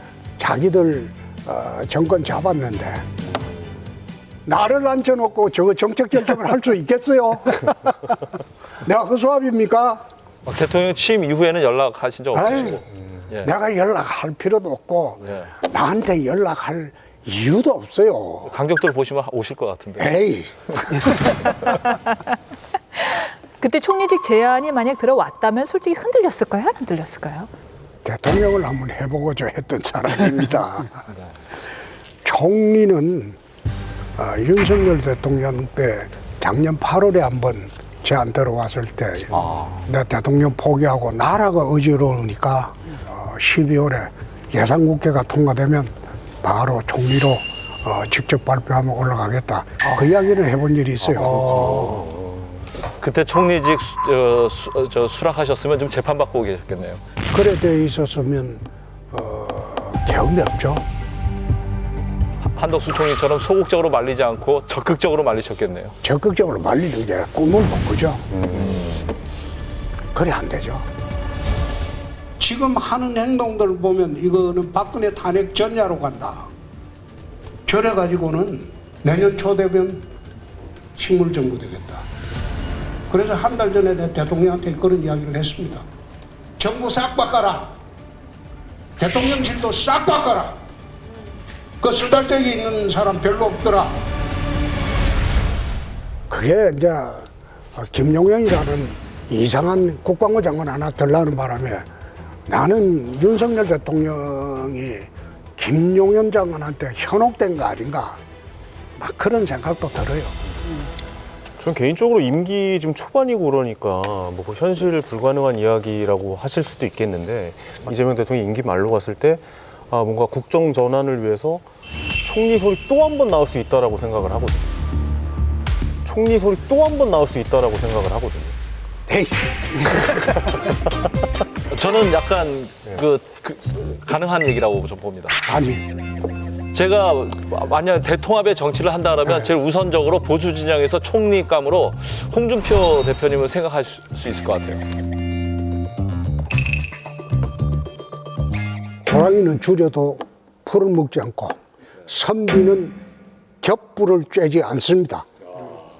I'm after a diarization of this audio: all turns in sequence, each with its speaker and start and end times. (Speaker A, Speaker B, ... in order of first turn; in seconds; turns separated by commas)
Speaker A: 0.4-3.0, Speaker A: 4.5-8.0, Speaker A: 8.8-10.0, Speaker B: 10.4-13.5, Speaker A: 12.3-12.8, Speaker A: 13.4-18.5, Speaker B: 18.4-20.1, Speaker A: 20.0-21.1, Speaker C: 22.9-27.5, Speaker A: 28.0-31.1, Speaker A: 32.2-33.4, Speaker A: 34.2-52.0, Speaker B: 39.4-39.7, Speaker D: 51.0-52.6, Speaker B: 53.0-57.0, Speaker A: 57.3-60.8, Speaker B: 62.4-65.9, Speaker A: 66.0-68.2, Speaker D: 68.3-68.8, Speaker B: 68.5-69.0, Speaker A: 70.1-70.8, Speaker A: 72.4-76.5, Speaker A: 77.7-80.1, Speaker A: 81.0-82.0, Speaker A: 83.1-85.8, Speaker A: 86.6-87.7, Speaker A: 89.0-90.5, Speaker A: 91.8-94.0, Speaker A: 96.3-101.9, Speaker A: 102.5-108.2, Speaker A: 109.0-110.4, Speaker D: 111.6-121.7, Speaker D: 122.2-124.7, Speaker D: 126.0-128.5, Speaker A: 129.1-130.2, Speaker B: 131.7-135.4, Speaker A: 135.4-135.8, Speaker B: 136.7-144.8, Speaker A: 149.1-153.0, Speaker A: 153.6-155.2